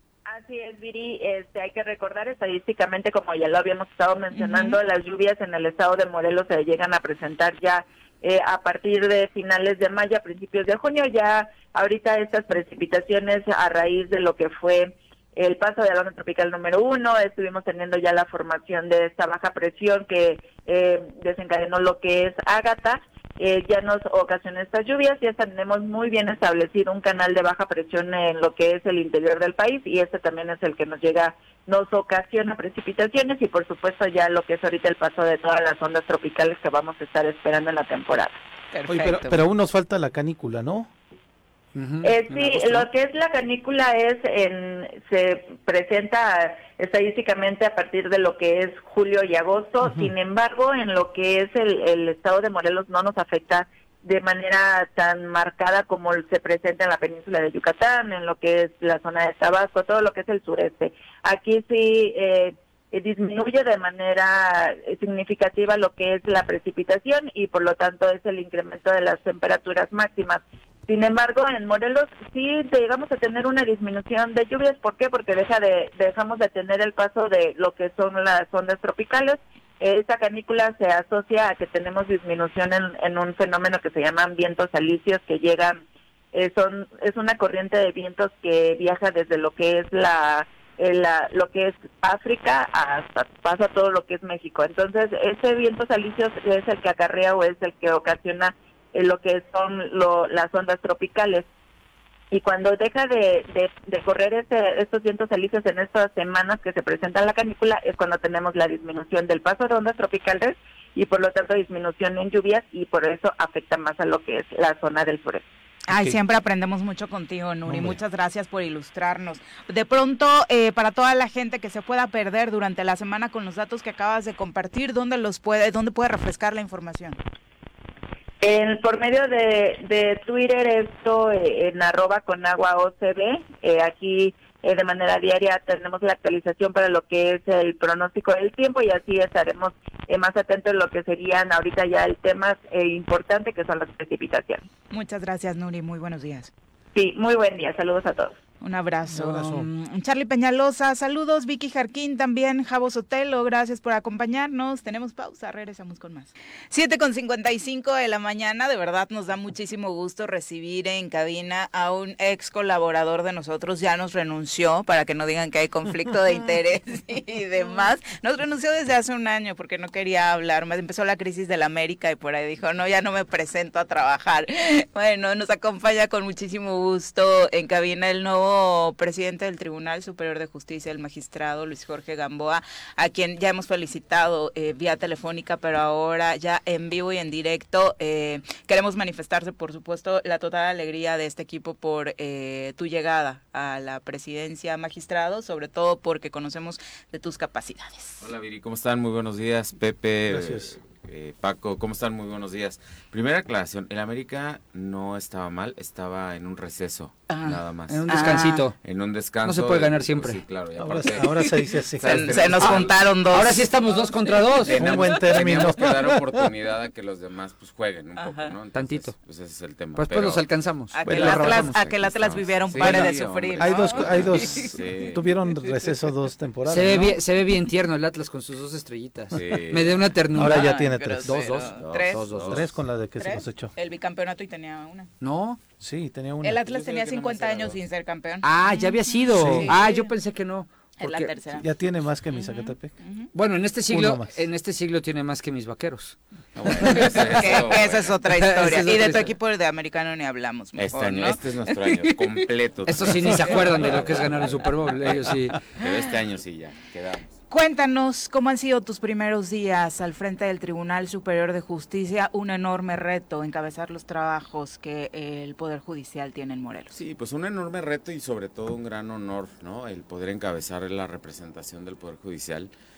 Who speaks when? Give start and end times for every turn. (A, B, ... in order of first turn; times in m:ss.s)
0:00.3-0:38.4 A
0:04.4-0:04.8 B
0:38.7-0:39.4 B
0:38.9-0:40.9 C
0:41.7-0:42.9 D
0:42.0-1:25.8 A
1:26.3-1:41.4 A
1:42.3-1:55.4 A
1:55.9-1:56.2 C
1:55.9-2:07.2 B
1:57.6-1:58.0 C
2:08.4-2:24.6 A
2:24.9-2:26.5 B
2:26.9-2:28.4 A
2:28.6-3:18.3 B
2:29.1-2:29.7 C
3:18.2-3:33.0 E
3:20.3-3:20.8 C
3:27.3-3:28.6 B
3:27.9-3:28.8 D
3:29.4-3:30.4 D
3:30.8-3:32.8 C
3:32.0-3:35.4 B
3:33.3-3:34.8 D
3:34.6-3:40.4 E
3:34.8-3:36.5 C
3:38.2-3:38.5 B
3:38.8-3:39.1 D
3:39.9-3:41.7 D
3:40.9-3:44.7 B
3:41.0-3:45.2 E
3:41.1-3:41.6 C
3:42.8-3:47.2 C
3:46.7-3:52.5 D
3:49.3-3:50.1 E
3:50.3-3:51.6 C
3:50.3-3:52.2 B
3:51.7-3:52.7 E
3:52.3-3:53.7 C
3:53.2-3:55.1 B
3:55.2-3:55.6 D
3:55.8-3:56.6 C
3:56.4-4:00.1 B
3:56.6-3:57.8 E
3:58.4-4:01.3 D
3:59.3-3:59.7 C
4:01.0-4:01.7 B
4:01.5-4:02.9 C
4:02.3-4:03.3 B
4:03.3-4:06.2 D
4:03.9-4:04.3 C
4:06.5-4:08.2 E
4:06.7-4:12.5 B
4:06.8-4:07.1 D
4:08.4-4:09.3 D
4:10.8-4:17.3 E
4:12.8-4:15.6 D
4:13.1-4:14.4 B
4:17.5-4:27.0 B
4:26.9-4:32.7 E